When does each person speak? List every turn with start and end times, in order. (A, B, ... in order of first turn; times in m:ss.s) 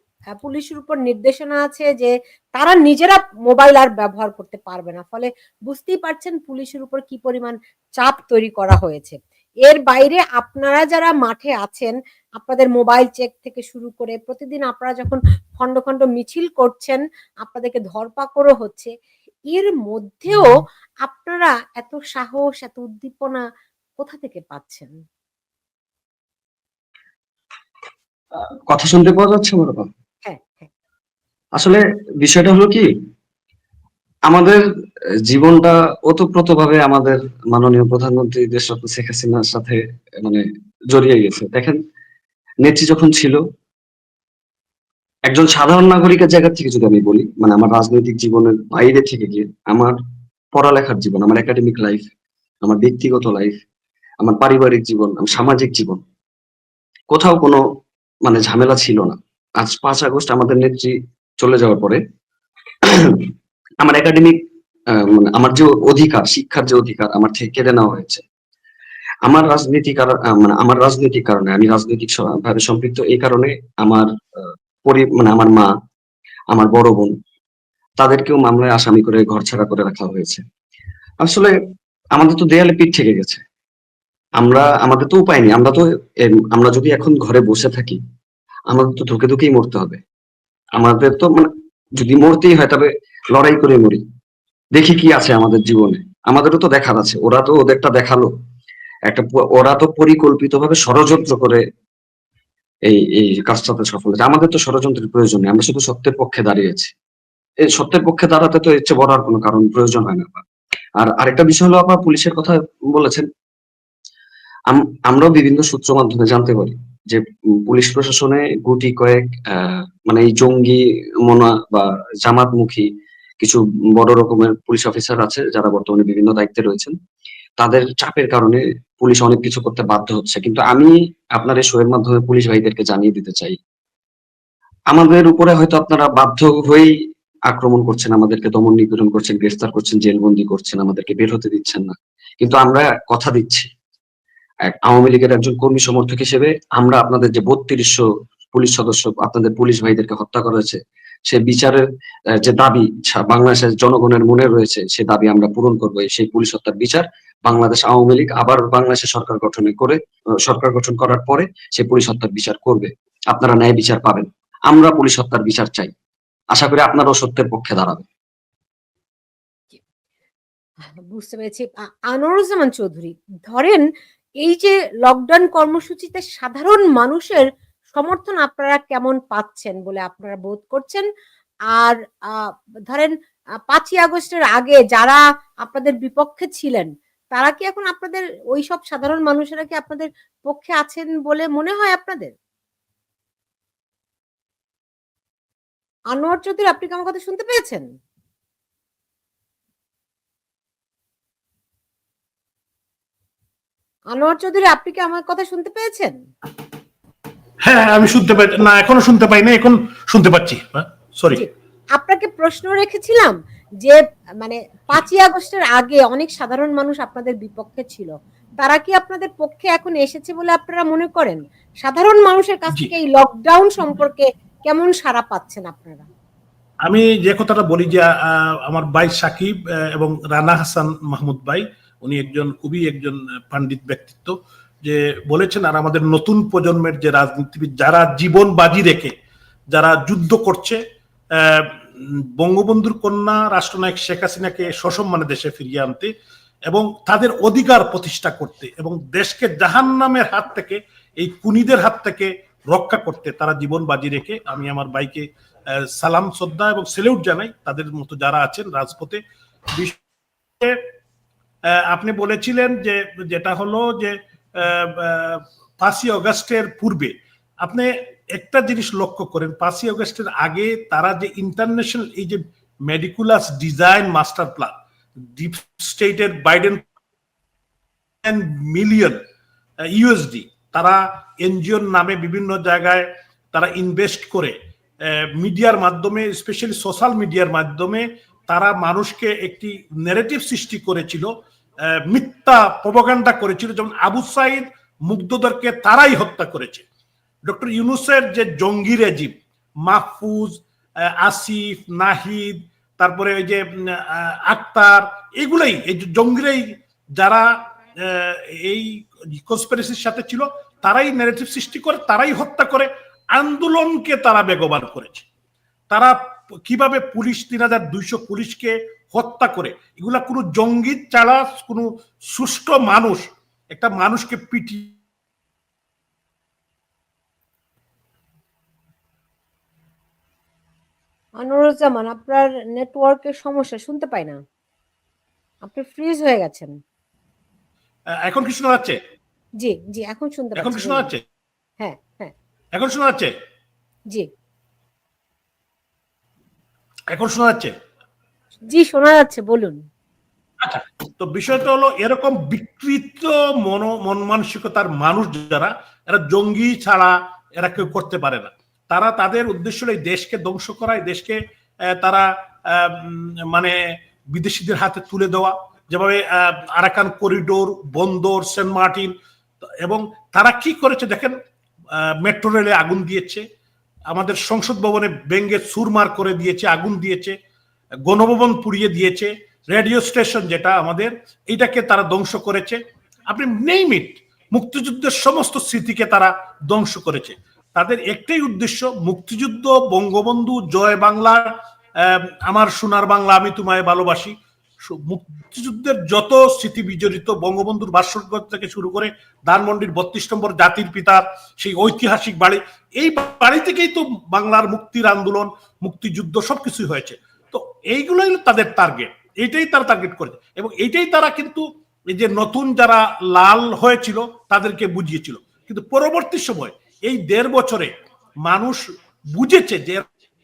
0:00.4-0:18.9 A
0:19.5-0:20.5 A
0:21.0-0:23.4 A
0:24.0-0:24.9 A
0:28.7-0:29.9 B
0:30.2-0:30.7 A
0:31.6-0:32.9 B
0:34.3-0:34.6 B
0:35.2-0:41.8 B
0:42.6-0:43.4 B
0:45.3-0:50.0 B
0:50.5-0:52.1 B
0:52.6-0:53.6 B
0:54.2-0:56.0 B
0:57.1-0:57.6 B
0:58.2-1:02.0 B
1:02.8-1:04.4 B
1:04.9-1:08.2 B
1:09.2-1:15.7 B
1:16.5-1:17.2 B
1:18.0-1:20.4 B
1:21.2-1:21.5 B
1:22.1-1:23.4 B
1:24.4-1:28.0 B
1:28.7-1:30.0 B
1:30.8-1:34.0 B
1:34.7-1:38.3 B
1:39.1-1:41.6 B
1:42.9-1:46.9 B
1:47.6-1:50.4 B
1:51.0-1:53.3 B
1:54.7-2:02.9 B
2:03.4-2:07.0 B
2:07.6-2:13.6 B
2:14.9-2:17.0 B
2:17.5-2:23.7 B
2:24.6-2:45.9 B
2:46.5-2:48.1 B
2:51.1-2:53.8 A
2:54.4-3:01.0 A
3:01.7-3:03.1 A
3:03.7-3:12.3 A
3:16.1-3:17.8 A
3:24.1-3:26.1 A
3:27.6-3:31.4 C
3:31.3-3:46.0 A
3:46.8-3:59.1 C
3:59.7-4:00.8 C
4:01.4-4:06.1 C
4:06.7-4:19.2 C
4:21.7-4:34.7 C
4:35.3-4:36.8 C
4:38.2-4:39.2 C
4:39.9-4:44.6 C
4:45.1-4:51.3 C
4:51.9-4:56.8 C
4:57.4-5:07.5 C
5:08.0-5:15.2 C
5:15.9-5:25.0 C
5:31.4-5:34.4 A
5:35.6-5:36.7 A
5:38.2-5:39.0 C
5:39.6-5:41.1 A
5:40.6-5:41.2 C
5:41.8-5:42.3 A
5:42.8-5:43.3 C
5:47.1-5:47.7 C
5:48.7-5:49.8 A
5:50.6-6:01.4 C
6:01.9-6:03.7 C
6:04.3-6:09.1 C
6:09.8-6:11.4 C
6:12.0-6:13.4 C
6:14.1-6:17.3 C
6:18.0-6:31.5 C
6:32.0-6:34.3 C
6:34.8-6:57.9 C
6:58.4-6:58.8 C
6:59.3-7:00.0 C